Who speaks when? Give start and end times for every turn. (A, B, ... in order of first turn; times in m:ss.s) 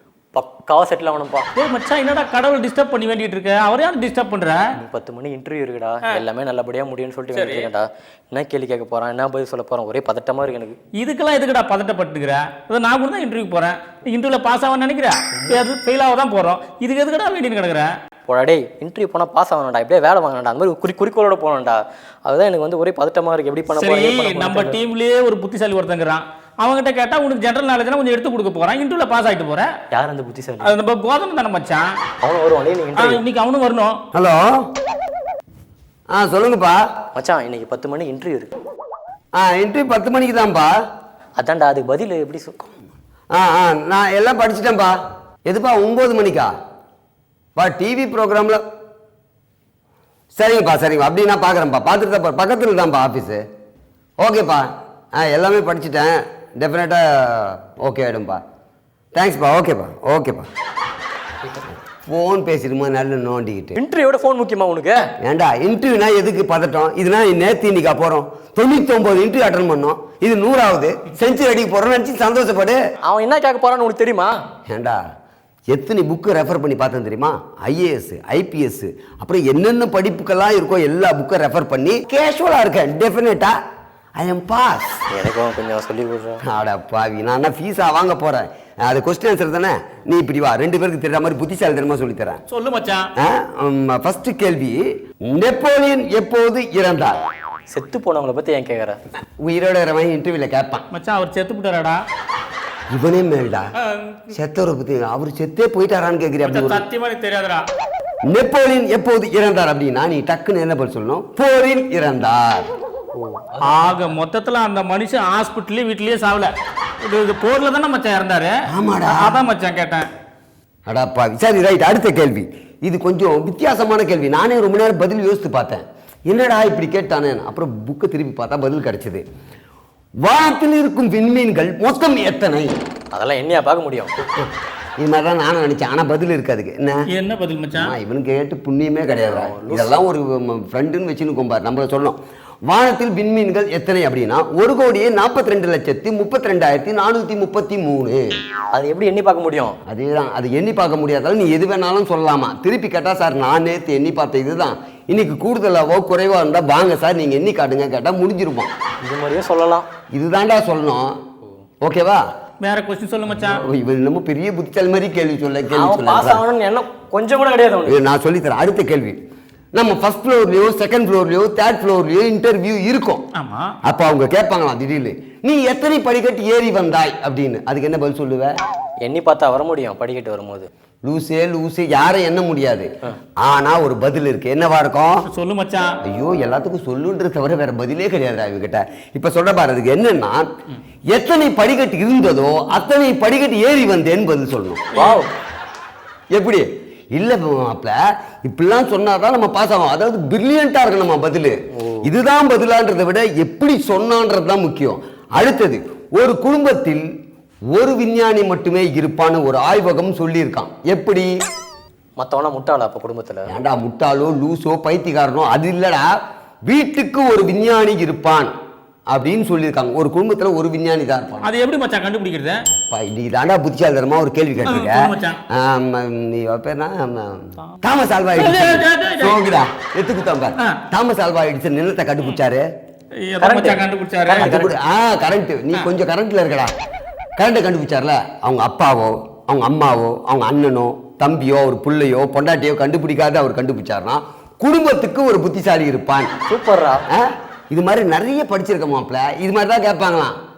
0:00.3-0:01.4 A
0:01.6-0:04.6 B
0:04.8-0:10.8 A
0:07.3-0:07.7 B
0:11.0-0:17.9 B
0:18.3-0:24.8 A
0:23.7-0:29.7 B
0:29.9-0:30.7 A
0:30.6-0:31.8 B
0:32.2-0:33.2 A
0:33.0-0:34.0 B
0:34.1-0:34.7 C
0:36.1-0:36.8 C
0:37.1-0:38.5 A
0:39.4-0:40.7 C
0:41.4-0:42.6 A
0:43.3-0:46.5 C
0:47.6-0:48.6 C
0:50.3-0:53.4 C
0:54.2-0:58.4 C
0:59.1-1:00.5 C
1:02.0-1:03.8 C
1:03.8-1:05.1 A
1:05.2-1:12.8 C
1:13.0-1:14.3 A
1:14.7-1:15.0 C
1:15.7-1:23.6 C
1:24.2-1:25.1 C
1:25.1-1:26.4 A
1:26.4-1:32.4 C
1:32.5-1:33.0 B
1:33.2-1:37.2 C
1:37.7-1:39.0 A
1:39.4-1:40.8 C
1:40.9-1:42.0 B
1:42.9-1:43.7 C
1:43.8-1:44.3 B
1:44.3-1:46.8 C
1:46.4-1:47.6 B
1:48.3-1:52.6 C
1:53.2-1:53.9 A
1:53.6-1:56.5 B
1:57.0-1:58.5 B
1:58.7-1:59.4 C
1:59.0-2:00.1 B
2:00.8-2:09.2 C
2:10.2-2:12.8 C
2:13.1-2:14.1 A
2:14.2-2:17.0 C
2:17.1-2:17.9 B
2:17.7-2:28.2 C
2:19.1-2:20.0 A
2:28.7-2:29.8 A
2:29.9-2:38.7 C
2:39.0-2:39.9 A
2:40.1-2:41.2 C
2:41.8-2:42.2 C
2:42.6-2:43.6 B
2:43.3-2:46.4 C
2:45.7-2:48.0 A
2:47.8-2:49.2 C
2:49.7-2:53.2 C
2:53.4-2:53.7 B
2:53.8-2:58.6 C
2:59.0-3:00.7 A
3:01.0-3:02.9 C
3:03.4-3:05.3 C
3:05.3-3:05.8 B
3:06.0-3:10.5 C
3:11.1-3:14.9 C
3:15.0-3:15.2 B
3:15.0-3:15.2 A
3:16.3-3:27.0 C
3:21.8-3:22.0 A
3:27.7-3:31.3 C
3:32.2-3:33.5 A
3:33.5-3:36.1 C
3:36.6-3:38.5 C
3:39.1-3:41.5 C
3:41.4-3:42.6 B
3:42.8-3:52.6 C
3:44.6-3:45.4 B
3:48.4-3:49.4 B
3:53.2-3:54.6 B
3:53.4-3:54.8 A
3:54.3-3:56.7 C
3:57.4-4:06.3 C
4:06.5-4:07.0 A
4:07.1-4:10.4 C